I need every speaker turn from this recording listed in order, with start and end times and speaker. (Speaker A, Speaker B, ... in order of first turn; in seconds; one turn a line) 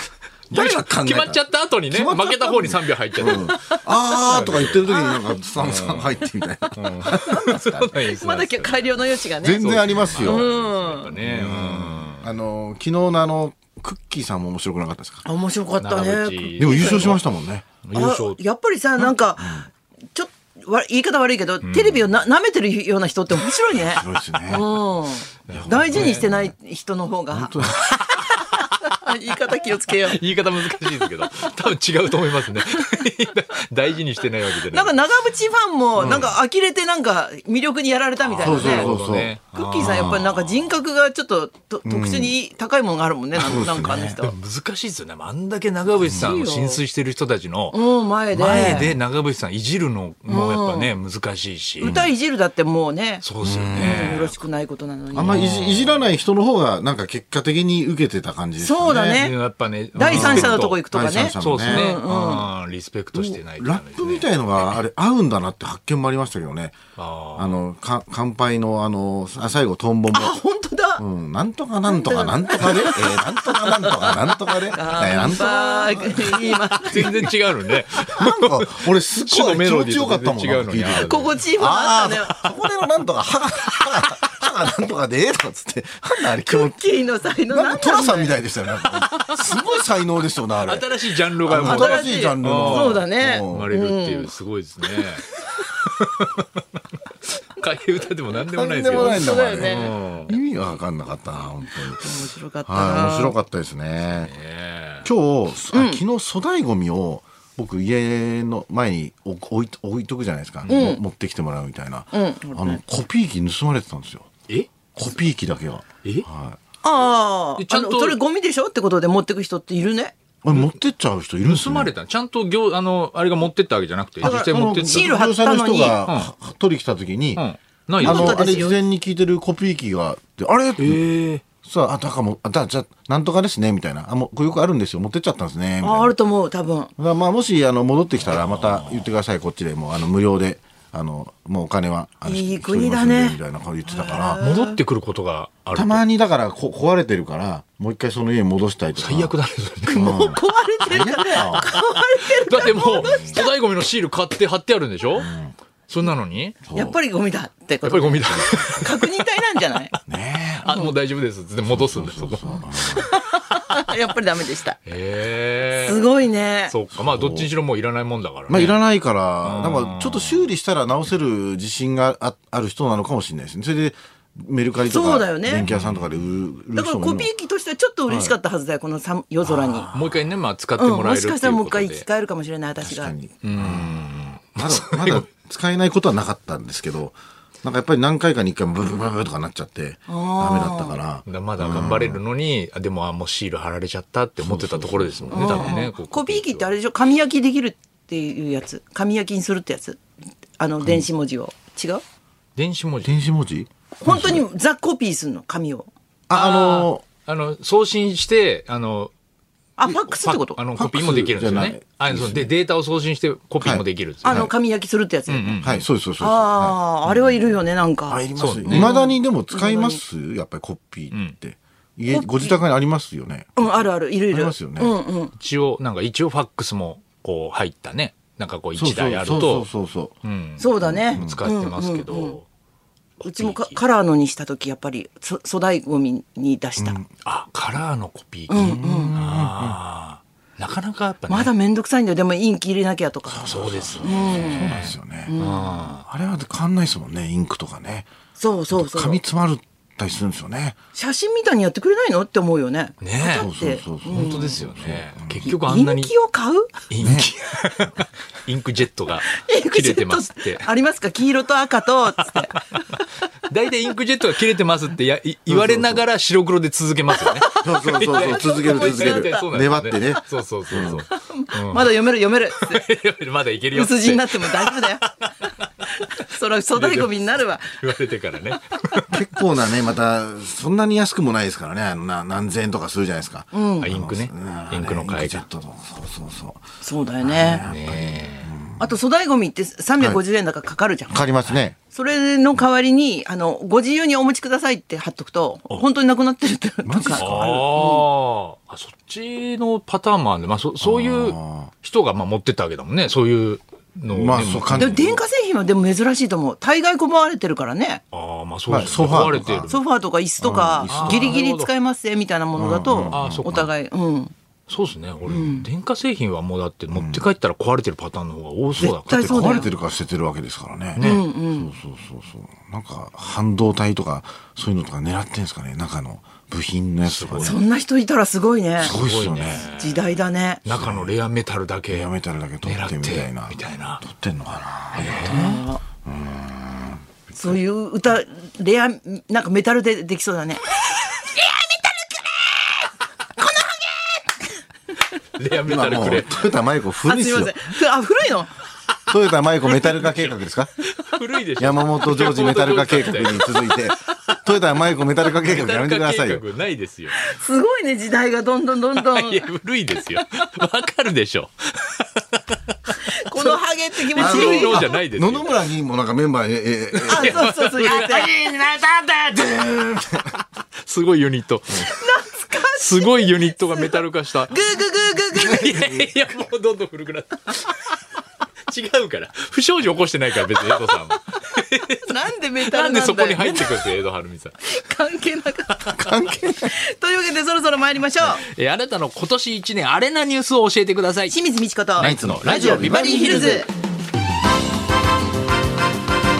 Speaker A: 0.5-5.0
Speaker B: 0.5-7.9
Speaker C: 3.5-3.8
Speaker C: 4.9-5.2
Speaker A: 5.5-6.2
Speaker A: 6.8-12.2
Speaker C: 7.0-11.2
Speaker B: 9.4-10.4
Speaker B: 11.2-15.2
Speaker C: 15.2-17.2
Speaker A: 15.8-17.2
Speaker B: 16.6-17.6
Speaker A: 17.8-18.4
Speaker C: 17.9-30.2
Speaker B: 19.4-19.6
Speaker A: 21.6-22.1
Speaker B: 23.8-24.7
Speaker A: 25.5-26.3
Speaker B: 25.5-26.5
Speaker B: 27.3-27.9
Speaker A: 28.2-28.6
Speaker A: 30.0-34.9
Speaker C: 34.7-38.9
Speaker B: 36.0-36.4
Speaker A: 38.2-40.7
Speaker B: 38.4-40.2
Speaker C: 39.5-44.3
Speaker B: 41.8-42.4
Speaker B: 43.3-44.2
Speaker A: 44.2-52.1
Speaker B: 46.0-46.3
Speaker C: 46.1-46.8
Speaker C: 47.7-48.9
Speaker B: 48.5-48.9
Speaker C: 50.3-50.9
Speaker B: 51.8-52.1
Speaker C: 51.8-55.5
Speaker A: 53.2-54.3
Speaker B: 53.4-54.2
Speaker B: 55.1-59.2
Speaker A: 55.2-56.1
Speaker C: 58.6-59.3
Speaker A: 59.0-60.8
Speaker C: 59.9-62.5
Speaker B: 60.0-61.9
Speaker A: 61.3-64.7
Speaker B: 63.1-66.8
Speaker A: 67.0-67.6
Speaker B: 67.3-70.4
Speaker C: 70.1-71.0
Speaker B: 71.0-76.7
Speaker C: 71.9-77.2
Speaker A: 76.9-81.3
Speaker B: 78.1-86.8
Speaker C: 80.9-82.4
Speaker C: 86.4-88.4
Speaker B: 87.5-90.9
Speaker A: 90.6-96.6
Speaker B: 91.4-93.7
Speaker C: 91.5-94.3
Speaker A: 97.4-100.4
Speaker B: 98.5-102.1
Speaker C: 98.8-99.9
Speaker C: 102.0-103.3
Speaker B: 102.7-104.3
Speaker A: 104.1-105.1
Speaker B: 105.0-114.3
Speaker C: 105.7-106.0
Speaker C: 110.7-111.0
Speaker C: 112.1-112.8
Speaker B: 114.9-116.6
Speaker C: 116.8-120.1
Speaker A: 117.6-118.2
Speaker B: 120.4-121.9
Speaker A: 121.4-125.1
Speaker B: 124.2-127.4
Speaker C: 124.2-126.0
Speaker A: 126.0-126.3
Speaker A: 127.3-128.6
Speaker C: 128.0-128.8
Speaker B: 128.0-131.0
Speaker A: 130.8-131.4
Speaker B: 131.6-136.1
Speaker C: 135.8-136.9
Speaker B: 137.0-144.4
Speaker A: 138.3-139.1
Speaker C: 142.2-143.4
Speaker C: 144.0-144.8
Speaker A: 144.4-146.0
Speaker B: 145.7-149.3
Speaker A: 149.0-150.2
Speaker C: 149.8-153.5
Speaker B: 149.9-151.7
Speaker A: 151.5-155.3
Speaker B: 152.6-153.4
Speaker B: 155.2-155.5
Speaker A: 155.9-156.6
Speaker B: 156.7-157.0
Speaker C: 156.7-159.9
Speaker A: 157.8-159.1
Speaker B: 160.1-160.7
Speaker A: 160.6-163.0
Speaker B: 161.6-163.1
Speaker C: 162.8-164.8
Speaker A: 164.8-166.1
Speaker C: 165.7-166.7
Speaker A: 166.7-168.8
Speaker B: 166.9-167.5
Speaker B: 168.5-177.3
Speaker A: 169.4-170.5
Speaker C: 174.8-175.7
Speaker A: 175.6-176.1
Speaker C: 176.7-179.9
Speaker B: 178.1-178.4
Speaker A: 179.4-182.1
Speaker C: 180.8-183.1
Speaker B: 182.8-184.1
Speaker A: 183.4-185.2
Speaker B: 184.6-192.2
Speaker C: 190.1-191.0
Speaker A: 191.2-196.7
Speaker B: 194.4-195.8
Speaker C: 195.3-200.0
Speaker C: 200.6-202.0
Speaker B: 200.8-201.1
Speaker A: 202.6-203.3
Speaker B: 203.0-204.4
Speaker C: 204.0-205.9
Speaker B: 206.3-207.0
Speaker A: 206.3-209.1
Speaker C: 209.8-210.6
Speaker A: 210.1-214.5
Speaker B: 210.7-212.5
Speaker B: 213.6-214.5
Speaker C: 214.2-215.6
Speaker A: 215.3-215.8
Speaker B: 215.6-217.5
Speaker C: 216.2-220.0
Speaker B: 218.1-224.9
Speaker A: 218.3-218.9
Speaker C: 222.1-222.6
Speaker C: 223.6-225.3
Speaker A: 225.3-229.7
Speaker B: 228.7-230.1
Speaker A: 230.2-232.4
Speaker C: 230.6-232.4
Speaker B: 230.8-231.4
Speaker A: 233.2-233.8
Speaker C: 233.2-237.0
Speaker B: 236.8-237.1
Speaker A: 237.2-241.5
Speaker C: 238.5-239.2
Speaker B: 238.5-239.8
Speaker C: 241.3-245.8
Speaker B: 243.3-245.3
Speaker A: 243.4-246.1
Speaker B: 246.1-248.1
Speaker C: 248.4-249.2
Speaker B: 248.7-250.8
Speaker C: 250.9-254.6
Speaker A: 253.0-253.5
Speaker B: 253.2-255.5
Speaker A: 254.1-256.1
Speaker C: 255.4-256.8
Speaker A: 256.9-260.7
Speaker B: 257.0-257.3
Speaker C: 259.3-263.0
Speaker A: 263.5-274.9
Speaker B: 265.5-266.0
Speaker C: 267.2-269.5
Speaker B: 267.6-271.0
Speaker C: 270.8-272.8
Speaker C: 273.7-277.8
Speaker A: 276.6-279.2
Speaker B: 279.1-286.6
Speaker C: 283.5-283.9
Speaker A: 283.8-285.4
Speaker C: 286.8-287.6
Speaker B: 287.2-288.9
Speaker A: 287.6-288.5
Speaker C: 288.8-298.0
Speaker B: 291.1-291.8
Speaker B: 296.8-298.0
Speaker A: 297.2-305.1
Speaker B: 300.8-301.7
Speaker B: 304.1-305.2
Speaker C: 304.7-308.0
Speaker A: 308.1-309.8
Speaker B: 308.7-309.7
Speaker C: 309.6-314.3
Speaker B: 310.4-311.4
Speaker A: 310.9-311.7
Speaker B: 312.5-313.5
Speaker A: 313.1-313.7
Speaker A: 314.7-319.7
Speaker C: 315.3-315.6
Speaker B: 316.9-317.2
Speaker B: 318.7-327.6
Speaker C: 318.8-319.7
Speaker A: 320.9-321.2
Speaker C: 321.0-321.7
Speaker A: 327.1-327.6
Speaker C: 327.4-328.9
Speaker B: 328.8-329.7
Speaker A: 328.8-332.1
Speaker C: 329.5-330.6
Speaker B: 330.7-331.1
Speaker B: 331.9-335.4
Speaker A: 332.6-334.0
Speaker A: 334.9-335.6
Speaker C: 335.2-335.8
Speaker B: 336.0-337.6
Speaker C: 337.3-342.9
Speaker C: 343.4-344.4
Speaker A: 345.4-346.6
Speaker B: 345.6-347.6
Speaker C: 347.0-348.5
Speaker B: 349.1-350.7
Speaker A: 349.7-353.7
Speaker B: 351.6-356.4
Speaker A: 355.2-357.2
Speaker C: 357.1-359.5
Speaker A: 358.9-363.6
Speaker C: 363.0-364.9
Speaker A: 364.1-365.6
Speaker B: 364.1-370.4
Speaker A: 366.9-368.3
Speaker C: 367.1-368.3
Speaker A: 370.8-371.9
Speaker C: 371.7-375.9
Speaker A: 372.7-374.6
Speaker A: 375.3-378.0
Speaker B: 375.4-376.1
Speaker A: 378.7-382.0
Speaker C: 381.9-383.9
Speaker A: 382.6-384.6
Speaker C: 384.6-388.4
Speaker B: 385.9-386.7
Speaker A: 388.2-391.4
Speaker C: 391.3-393.7
Speaker A: 392.0-393.5
Speaker B: 392.0-393.6